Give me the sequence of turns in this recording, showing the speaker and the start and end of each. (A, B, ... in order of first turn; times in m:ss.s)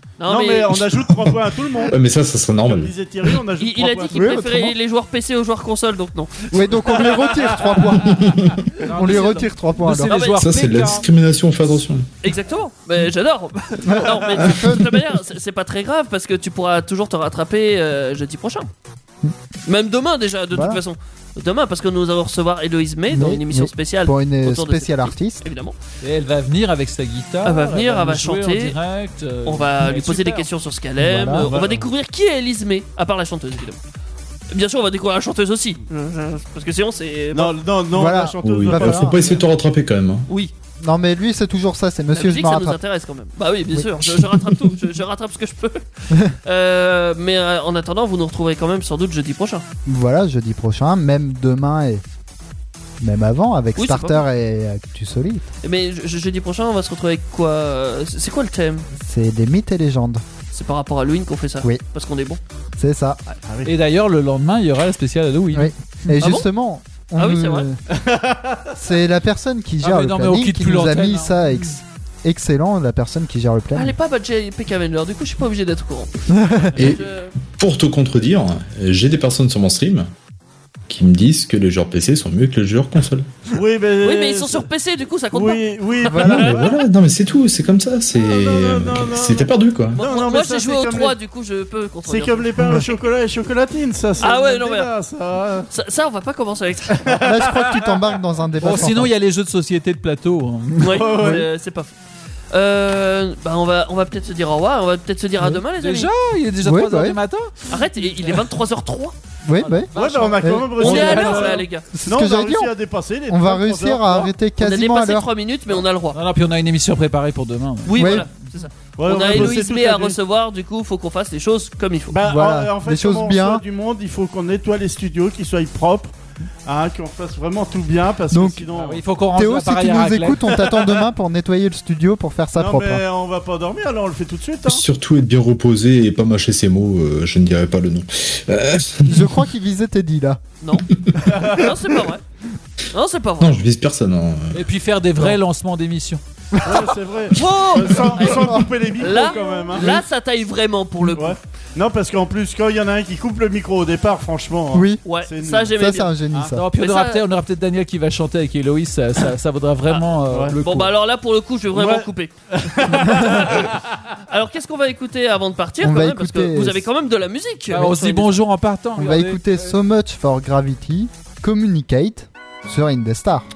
0:00.2-0:00.8 A
0:00.3-0:02.0 B
0:01.9-0:02.9 C
0:02.7-0:04.4 B
0:03.6-0:07.5 A
0:04.1-0:04.7 D
0:06.5-0:08.3 D
0:06.9-0:07.8 B
0:08.1-0:08.6 C
0:08.8-0:11.1 E
0:08.9-0:10.2 D
0:09.0-0:09.4 A
0:10.1-0:10.4 A
0:10.4-0:12.1 C
0:12.2-0:18.7 A
0:13.8-0:14.9 D
0:14.4-0:14.8 C
0:19.6-0:25.7 A
0:20.5-0:20.8 D
0:23.1-0:25.4 D
0:26.0-0:30.5 E
0:27.4-0:28.8 A
0:29.4-0:33.8 A
0:31.0-0:31.5 D
0:31.4-0:31.8 B
0:34.5-0:37.6 A
0:37.3-0:39.4 B
0:37.9-0:39.2 D
0:38.4-0:40.3 C
0:40.8-0:42.8 D
0:42.1-0:49.6 A
0:43.7-0:44.2 D
0:49.8-0:52.0 D
0:53.0-0:55.5 D
0:53.8-0:54.2 A
0:55.6-0:58.9 A
0:59.0-1:00.2 D
1:00.5-1:02.4 A
1:02.8-1:03.2 D
1:03.5-1:03.7 B
1:03.6-1:05.7 E
1:05.5-1:07.8 D
1:06.2-1:06.4 A
1:07.2-1:07.7 A
1:07.9-1:08.7 B
1:08.8-1:13.9 D
1:09.8-1:11.4 E
1:13.7-1:17.3 A
1:16.3-1:16.7 D
1:16.8-1:17.0 C
1:17.5-1:20.1 C
1:20.9-1:23.3 C
1:23.5-1:24.6 B
1:24.0-1:26.4 A
1:25.3-1:26.8 B
1:26.1-1:26.5 D
1:26.3-1:30.0 C
1:28.1-1:31.1 B
1:29.9-1:32.9 A
1:32.1-1:35.7 B
1:34.2-1:34.9 A
1:35.7-1:37.1 A
1:37.0-1:38.1 B
1:37.2-1:39.1 D
1:38.6-1:41.0 E
1:40.8-1:41.9 A
1:40.9-1:41.4 B
1:42.5-1:46.1 A
1:45.7-1:47.5 E
1:46.6-1:47.2 D
1:47.7-1:49.1 A
1:49.4-1:51.3 D
1:49.6-1:51.6 E
1:49.9-1:54.3 B
1:50.8-1:51.9 A
1:51.9-1:52.7 D
1:53.3-1:55.3 D
1:54.6-1:56.2 A
1:56.1-1:58.3 E
1:57.8-2:02.2 A
1:58.0-1:58.3 D
1:59.0-2:00.2 B
2:02.1-2:06.1 B
2:02.2-2:03.6 D
2:06.6-2:09.0 B
2:08.3-2:08.6 D
2:08.7-2:10.7 E
2:09.3-2:13.0 D
2:12.5-2:14.8 B
2:14.7-2:19.4 C
2:19.1-2:20.4 D
2:20.6-2:20.9 A
2:21.2-2:21.7 B
2:21.5-2:22.2 A
2:22.9-2:23.5 A
2:23.4-2:24.6 C
2:24.5-2:26.2 E
2:26.5-2:26.9 D
2:26.6-2:30.0 B
2:27.3-2:31.4 A
2:28.4-2:30.0 D
2:31.1-2:35.8 B
2:34.7-2:35.0 D
2:35.0-2:36.1 A
2:35.7-2:36.6 D
2:36.4-2:40.9 E
2:36.8-2:37.2 A
2:40.3-2:40.6 B
2:40.6-2:42.3 A
2:41.7-2:43.8 B
2:42.8-2:43.7 A
2:44.3-2:48.4 A
2:45.8-2:46.8 D
2:47.7-2:49.4 E
2:49.0-2:53.4 D